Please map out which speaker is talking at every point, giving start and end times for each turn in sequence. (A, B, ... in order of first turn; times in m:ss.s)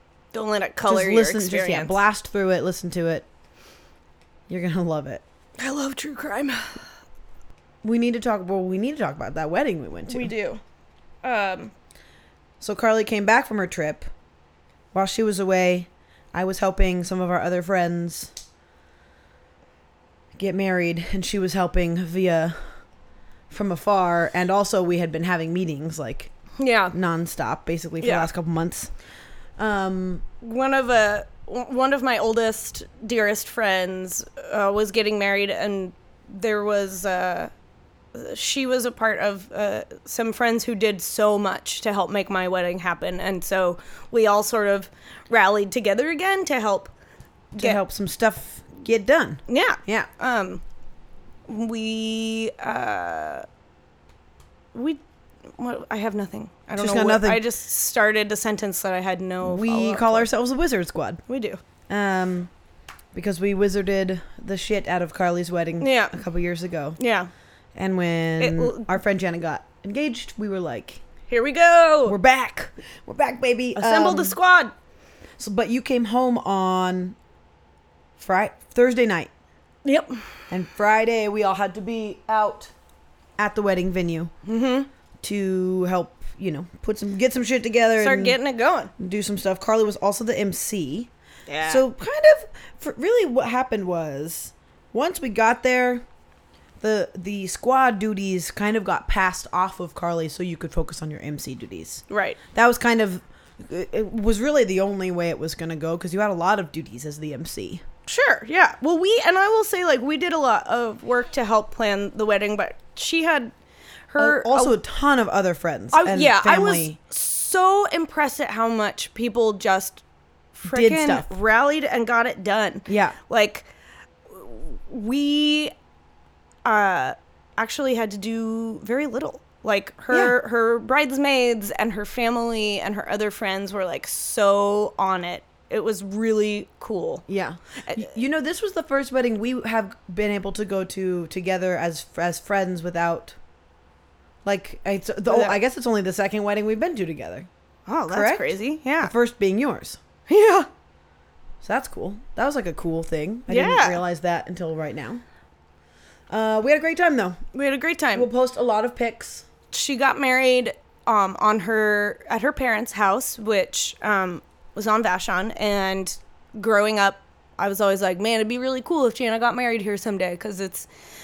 0:00.3-0:02.0 A
0:00.8-0:03.2 B
0:04.5-0:05.2 B
0:05.6-0:06.8 A
0:07.8-0:10.3 B
0:10.1-0:10.6 A
0:11.2-0:11.7 A
0:12.6-0:14.1 B
0:14.9-0:18.3 B
0:20.4-0:22.8 B
0:23.5-0:26.3 B
0:26.6-0:26.9 A
0:26.9-0:28.9 B
0:28.0-0:28.3 A
0:29.6-0:30.2 B
0:30.4-0:37.5 A
0:38.1-0:46.9 A
0:47.6-0:50.1 B
0:49.5-0:50.6 A
0:51.5-0:53.4 A
0:54.7-0:55.0 A
0:55.6-1:00.3 A
0:56.8-0:57.4 B
0:59.4-1:01.2 B
1:01.3-1:01.6 A
1:01.9-1:02.5 B
1:03.1-1:07.0 B
1:05.8-1:06.2 A
1:07.0-1:07.3 A
1:07.7-1:11.0 B
1:08.4-1:08.9 A
1:11.3-1:12.2 A
1:12.0-1:14.4 B
1:13.7-1:14.7 A
1:15.4-1:17.2 B
1:18.2-1:19.3 B
1:19.8-1:20.2 A
1:20.5-1:22.7 B
1:23.4-1:24.3 B
1:24.4-1:24.9 A
1:25.2-1:28.4 B
1:28.0-1:28.9 A
1:29.0-1:31.1 B
1:31.5-1:31.8 A
1:31.6-1:36.0 B
1:36.8-1:47.8 B
1:42.1-1:42.4 A
1:48.1-1:53.5 A
1:54.1-1:54.8 A
1:54.2-1:57.0 B
1:55.9-2:00.0 A
2:00.5-2:03.7 A
2:00.6-2:01.3 B
2:02.9-2:03.2 B
2:04.3-2:05.7 A
2:06.6-2:17.2 A
2:17.3-2:23.4 B
2:17.8-2:18.1 A
2:24.4-2:27.5 B
2:25.3-2:25.6 A
2:27.9-2:29.1 A
2:28.1-2:30.0 B
2:30.3-2:30.7 A
2:31.6-2:35.2 B
2:33.5-2:34.0 A
2:36.3-2:37.4 B
2:37.5-2:38.3 A
2:38.1-2:39.4 B
2:39.7-2:50.9 A